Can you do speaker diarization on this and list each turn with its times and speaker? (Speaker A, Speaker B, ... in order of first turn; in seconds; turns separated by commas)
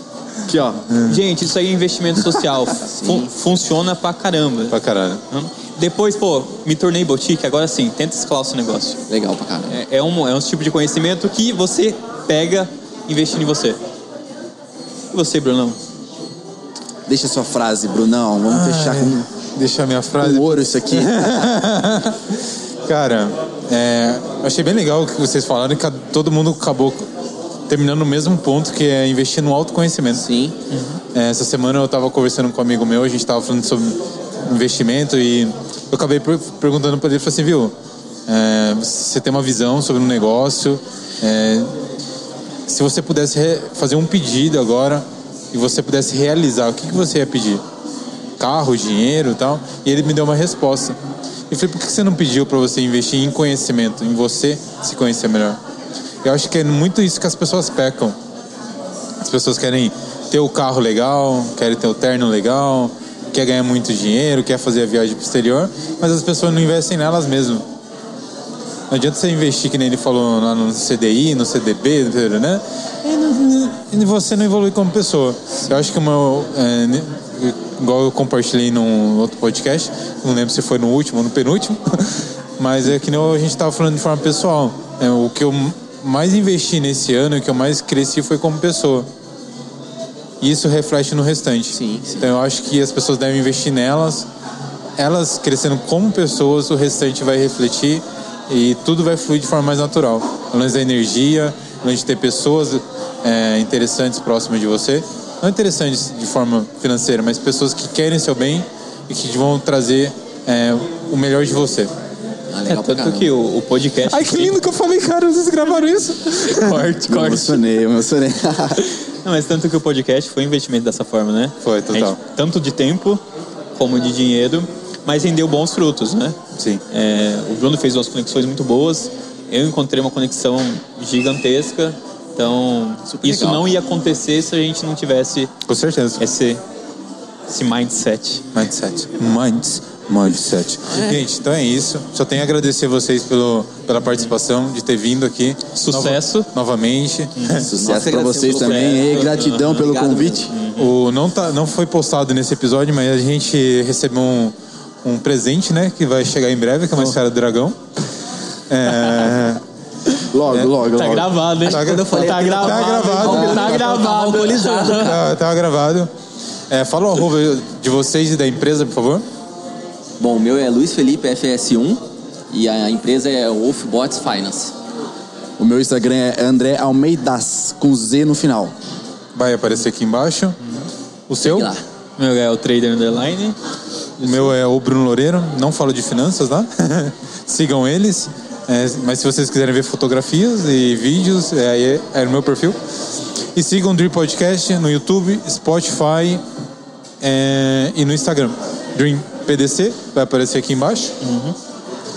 Speaker A: 0.5-0.9, Speaker B: 0.9-1.2, Speaker C: 0.9-4.8, Speaker D: 2.9-3.3, Speaker B: 4.7-5.2, Speaker C: 5.3-9.0, Speaker D: 9.1-9.8, Speaker C: 9.7-13.8, Speaker C: 15.1-15.8, Speaker A: 17.1-19.3, Speaker B: 18.5-27.1, Speaker A: 20.2-21.5, Speaker B: 27.7-30.2, Speaker D: 30.2-30.6, Speaker C: 30.7-31.0, Speaker B: 31.1-37.7, Speaker B: 38.3-41.7, Speaker B: 42.7-47.6, Speaker B: 48.4-51.0, Speaker B: 51.5-55.6, Speaker B: 56.2-58.2, Speaker B: 59.2-67.6, Speaker B: 68.9-89.1, Speaker B: 90.4-94.3, Speaker D: 91.7-92.3, Speaker B: 95.0-111.9, Speaker D: 112.5-113.3, Speaker C: 112.7-114.5, Speaker B: 114.0-117.3, Speaker C: 116.4-117.6, Speaker A: 117.1-118.9, Speaker C: 119.2-123.2, Speaker B: 121.6-122.2, Speaker C: 123.8-126.4, Speaker B: 126.6-126.8, Speaker C: 126.9-135.5, Speaker D: 133.1-133.7, Speaker B: 135.7-136.2, Speaker C: 136.2-136.6, Speaker C: 137.5-138.4, Speaker B: 138.5-147.7, Speaker D: 140.9-141.2, Speaker C: 145.8-146.5, Speaker C: 147.4-147.7, Speaker A: 147.6-150.5, Speaker D: 147.8-150.5, Speaker C: 148.3-149.9, Speaker C: 150.5-150.9, Speaker B: 150.8-157.8, Speaker B: 158.7-159.6, Speaker A: 160.3-161.3, Speaker C: 160.8-165.2, Speaker D: 161.6-165.2, Speaker B: 161.7-163.6, Speaker B: 164.9-166.1, Speaker B: 166.7-169.2, Speaker D: 170.2-174.7, Speaker A: 175.6-178.7, Speaker B: 179.3-180.6, Speaker B: 181.3-181.7, Speaker D: 181.4-181.8, Speaker C: 182.2-183.6, Speaker C: 184.2-184.5, Speaker B: 184.2-192.8, Speaker B: 193.6-196.4, Speaker B: 197.2-201.2, Speaker C: 201.2-201.6